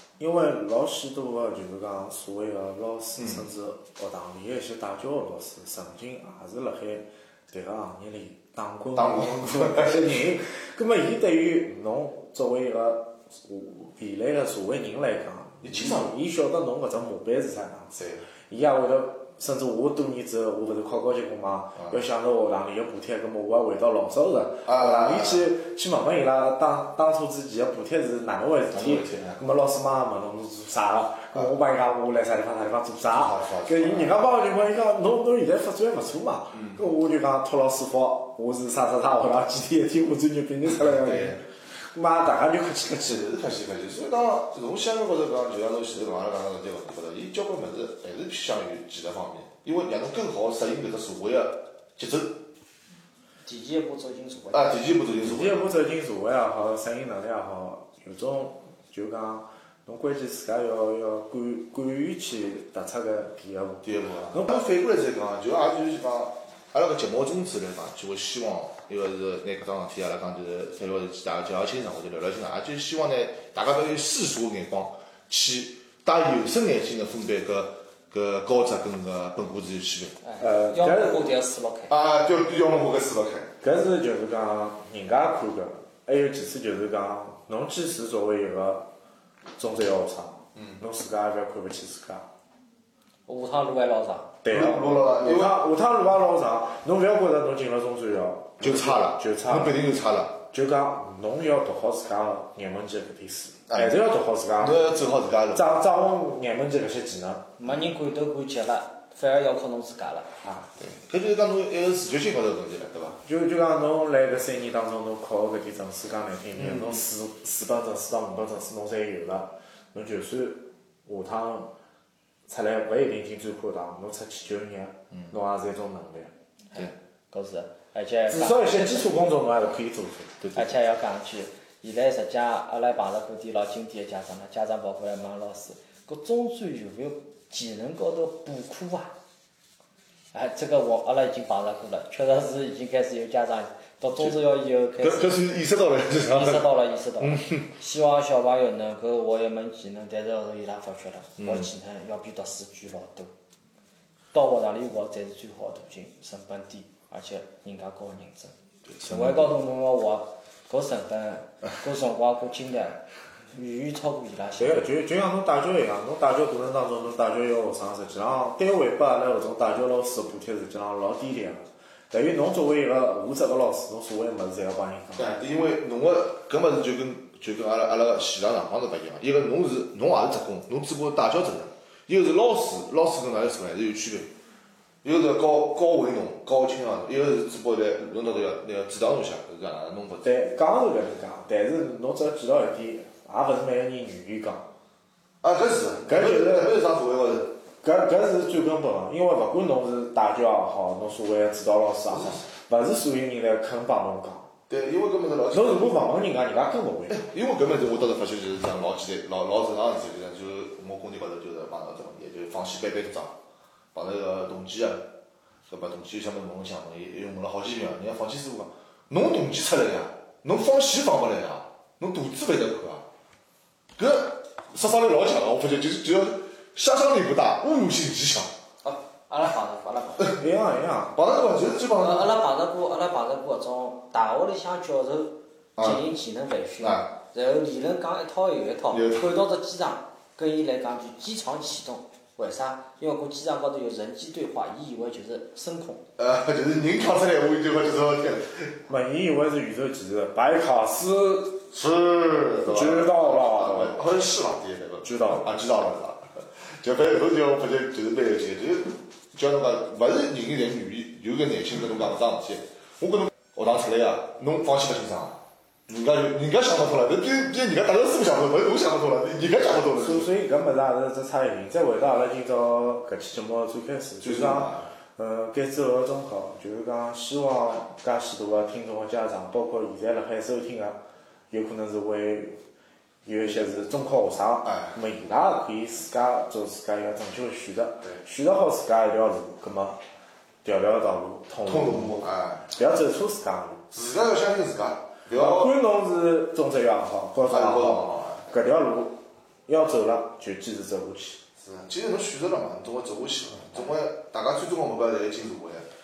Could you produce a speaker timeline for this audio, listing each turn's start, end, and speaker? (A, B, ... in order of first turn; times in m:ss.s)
0:00.2-0:43.2 A
0:03.2-0:03.4 B
0:09.0-0:10.0 B
0:15.6-0:16.1 B
0:18.0-0:18.2 B
0:24.6-0:25.5 B
0:28.7-0:29.4 B
0:33.1-0:34.2 B
0:36.5-0:36.8 B
0:40.6-0:41.4 B
0:43.0-0:52.4 B
0:53.4-0:54.8 C
0:54.5-0:55.7 B
0:55.2-1:04.6 A
1:03.8-1:20.2 B
1:20.2-1:21.9 C
1:20.4-1:21.3 A
1:21.9-1:23.5 B
1:23.6-1:28.8 A
1:29.6-1:32.2 A
1:30.6-1:30.8 B
1:33.3-1:34.4 C
1:34.4-1:39.8 A
1:34.5-1:35.6 B
1:38.6-1:40.4 B
1:40.5-1:44.9 A
1:43.7-1:44.0 B
1:44.6-1:45.6 B
1:45.5-1:47.5 A
1:47.6-1:50.3 C
1:50.4-1:50.7 A
1:50.8-1:53.2 B
1:53.2-2:01.7 A
1:56.5-1:57.0 B
2:02.5-2:06.3 A
2:06.7-2:09.1 C
2:08.3-2:10.5 A
2:10.4-2:10.7 B
2:10.5-2:19.1 C
2:20.3-2:25.4 C
2:25.0-2:27.7 B
2:26.3-2:33.3 C
2:31.4-2:31.7 B
2:34.3-2:43.0 C
2:38.9-2:39.5 B
2:43.5-2:44.8 C
2:44.6-2:55.4 A
2:55.2-3:04.3 B
3:05.0-3:10.3 B
3:10.2-3:14.7 A
3:15.4-3:17.5 B
3:16.0-3:16.7 A
3:17.8-3:24.5 A
3:22.1-3:22.4 B
3:24.7-3:26.0 B
3:25.5-3:27.2 A
3:27.1-3:33.3 B
3:33.9-3:35.1 B
3:35.7-3:43.0 B
3:44.0-3:48.5 B
3:48.8-3:50.4 C
3:50.3-3:51.2 A
3:51.1-3:52.4 B
3:52.0-4:06.0 C
3:55.8-3:56.0 B
3:56.8-3:57.1 B
3:58.9-3:59.3 B
4:06.2-4:08.8 B
4:08.9-4:11.6 A
4:11.7-4:30.3 B
4:12.6-4:14.0 A
4:15.0-4:15.5 A
4:30.0-4:42.6 A
4:34.2-4:34.9 B
4:43.2-4:50.0 A
4:44.6-4:44.9 B
4:50.6-4:53.8 A
4:51.6-4:52.7 B
4:53.9-4:55.7 B
4:55.3-5:01.4 A
4:57.5-4:58.4 B
5:01.6-5:05.9 B